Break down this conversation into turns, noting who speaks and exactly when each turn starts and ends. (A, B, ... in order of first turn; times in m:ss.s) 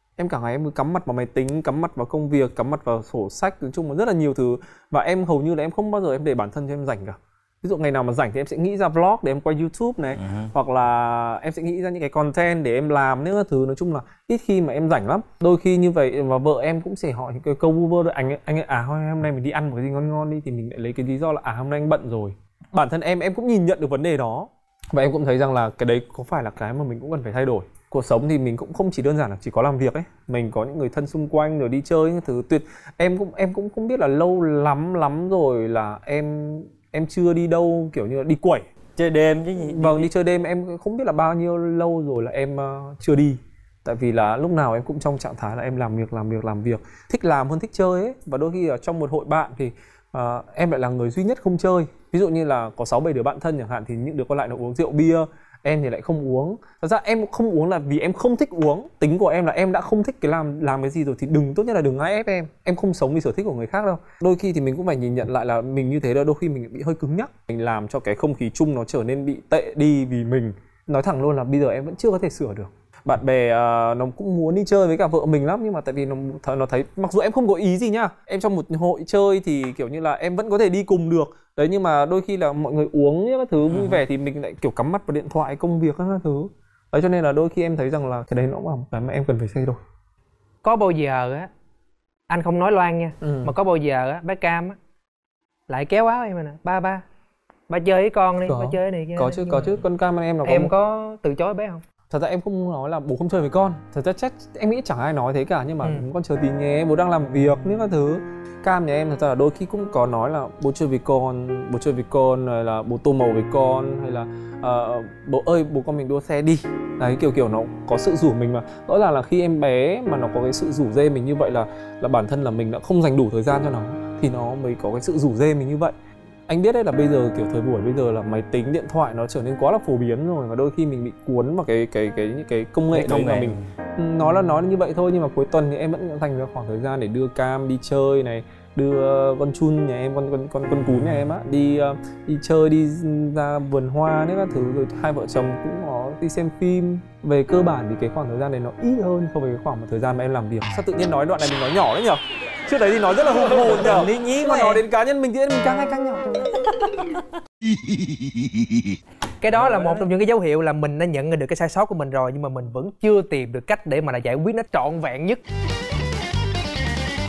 0:00.2-0:38.7 A
0:10.2-0:10.5 B
0:39.0-0:40.1 B
0:39.7-1:29.8 A
1:23.7-1:24.0 B
1:30.6-1:31.5 C
1:32.3-1:34.8 C
1:33.2-1:33.5 A
1:35.7-1:37.0 C
1:37.7-1:39.8 C
1:38.5-1:40.7 A
1:40.4-1:41.8 C
1:42.1-2:06.0 A
2:06.5-2:36.8 A
2:12.9-2:13.6 B
2:33.5-2:34.8 B
2:39.4-2:45.4 C
2:39.6-2:40.0 B